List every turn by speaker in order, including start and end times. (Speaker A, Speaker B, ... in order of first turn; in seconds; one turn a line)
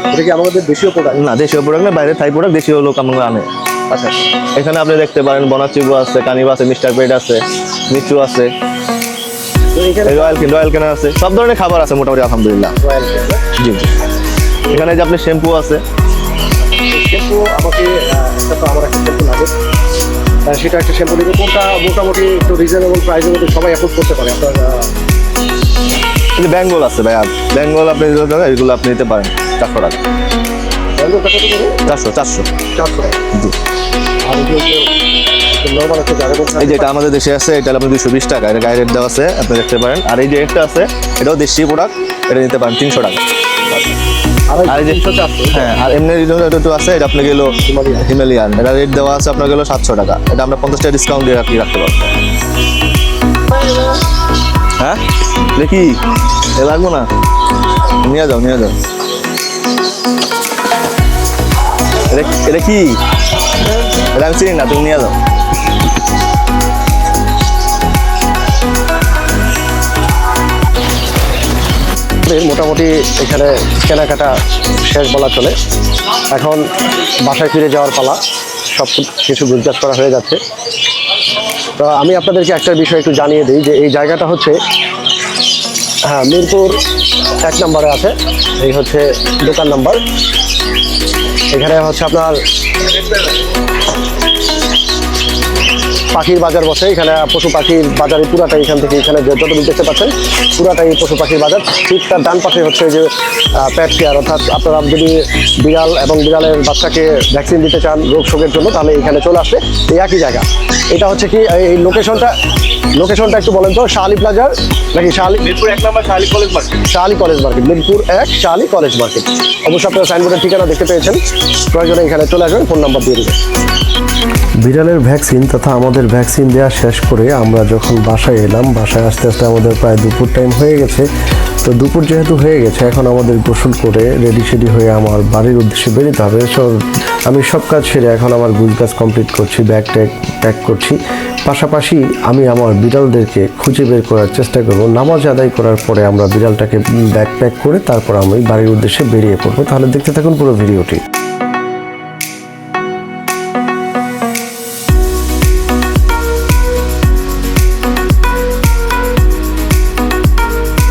Speaker A: 0.1-1.2
Speaker B: 1.1-8.5
Speaker A: 9.7-10.4
Speaker B: 10.1-12.7
Speaker A: 12.8-13.4
Speaker B: 13.6-13.9
Speaker B: 14.7-15.8
Speaker A: 16.9-19.5
Speaker A: 20.5-24.9
Speaker B: 26.4-30.0
Speaker A: 31.0-31.7
Speaker B: 31.9-32.5
Speaker A: 32.7-33.2
Speaker A: 34.3-34.9
Speaker A: 35.6-36.9
Speaker B: 36.6-43.2
Speaker A: 44.5-45.7
Speaker B: 44.7-52.1
Speaker A: 47.7-48.0
Speaker B: 55.5-56.0
Speaker B: 56.6-57.1
Speaker B: 58.0-58.8
Speaker B: 62.1-63.0
Speaker B: 64.0-65.2
Speaker A: 72.2-74.3
Speaker A: 74.9-75.5
Speaker A: 76.3-76.6
Speaker A: 77.2-78.2
Speaker A: 78.7-80.4
Speaker A: 81.8-84.5
Speaker A: 86.1-86.8
Speaker A: 87.4-90.0
Speaker A: 91.5-92.4
Speaker A: 96.1-103.1
Speaker A: 103.6-112.3
Speaker A: 113.0-115.5
Speaker B: 115.4-116.8
Speaker A: 116.9-121.2
Speaker A: 121.7-123.4
Speaker C: 124.6-131.0
Speaker C: 131.6-136.8
Speaker C: 137.3-151.0